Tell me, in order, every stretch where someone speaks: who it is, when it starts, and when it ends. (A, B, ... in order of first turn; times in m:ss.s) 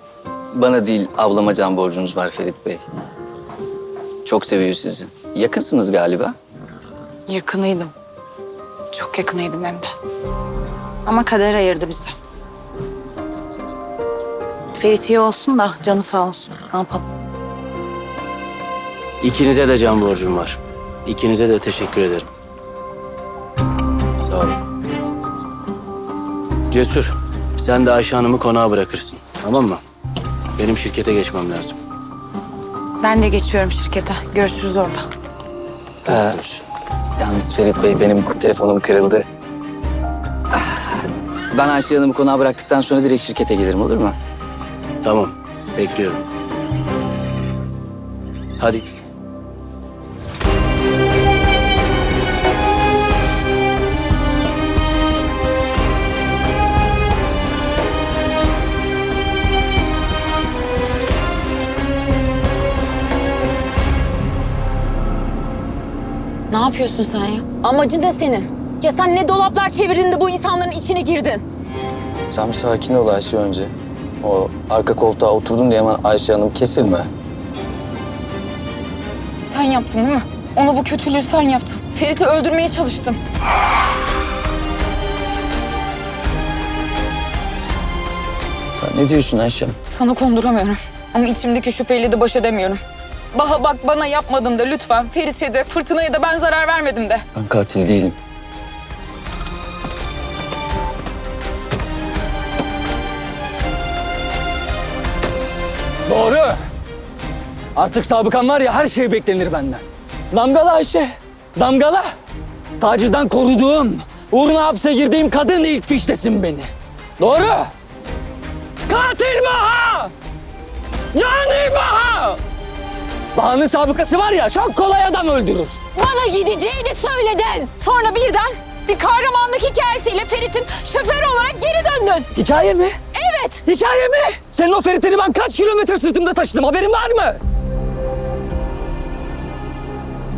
0:00.5-0:02.8 A
0:04.2-0:06.4 A
0:07.6-0:07.9 B
0:09.0-0:09.9 B
0:11.1-0:12.1 B
0:14.8-0:17.0 B
0:19.2-0:22.3 C
0:24.2-0:24.5 C
0:26.8-0:29.8 C
0:30.6-0:31.8 C
0:33.0-0:35.0 B
0:36.1-0:36.4 A
0:36.2-0:36.6 C
0:37.2-0:39.3 A
0:40.5-0:40.9 A
0:41.5-0:44.2 A
0:45.0-0:46.2 C
1:06.5-1:11.4 D
1:12.3-1:17.1 A
1:19.4-1:23.2 D
1:28.8-1:29.8 A
1:29.9-1:32.8 D
1:33.3-1:37.2 D
1:37.4-1:38.2 A
1:46.1-1:46.5 E
1:47.8-1:49.8 E
1:48.0-1:48.7 A
1:50.3-1:51.0 E
1:50.6-1:51.0 A
1:51.6-1:52.0 E
1:52.8-1:56.7 E
1:57.2-1:57.6 E
1:58.9-2:00.1 E
2:01.1-2:02.4 E
2:03.4-2:05.7 E
2:05.9-2:12.3 D
2:12.4-2:12.9 E
2:12.5-2:12.8 A
2:13.1-2:13.7 D
2:13.7-2:17.4 E